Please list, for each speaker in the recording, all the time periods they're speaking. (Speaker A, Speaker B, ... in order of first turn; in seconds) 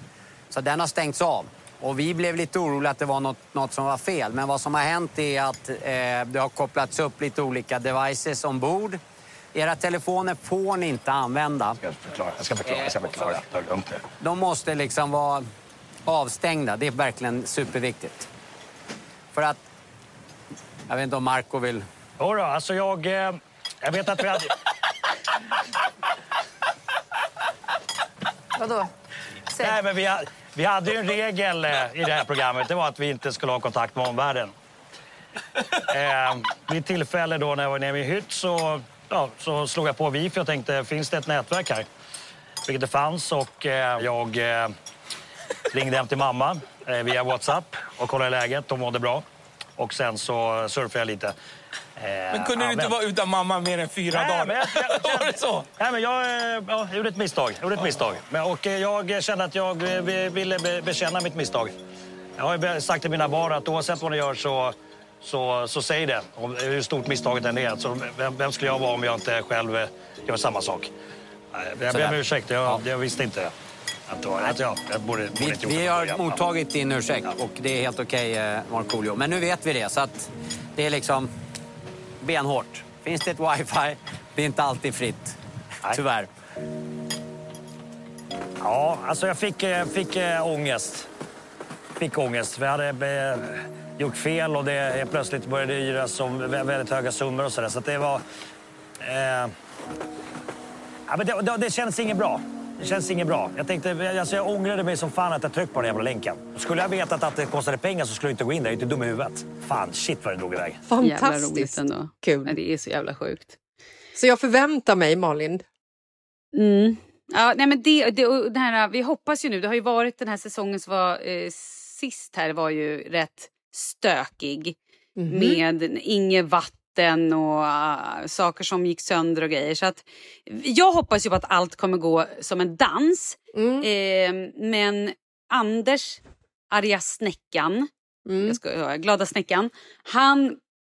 Speaker A: 0.5-9.0, 9.5-11.8, 12.7-13.3, 14.2-15.4, 16.1-18.3, 19.3-19.6, 20.9-21.8, 71.9-72.8, 75.3-81.3, 82.2-86.3
Speaker B: 11.8-13.9, 22.2-24.5, 29.6-34.5, 35.9-41.9, 42.6-44.7, 45.7-49.2, 49.8-51.3, 52.0-53.0, 54.1-61.7, 62.4-70.9, 71.5-73.5, 74.1-76.4, 88.6-91.1, 92.0-98.2, 99.0-99.5, 101.1-110.8
Speaker C: 52.3-55.7
Speaker D: 110.9-112.6, 114.1-115.6, 125.2-125.6, 133.5-133.9, 138.2-138.6
Speaker E: 111.0-113.6, 116.5-124.8, 125.3-136.2, 136.7-137.9, 138.4-140.6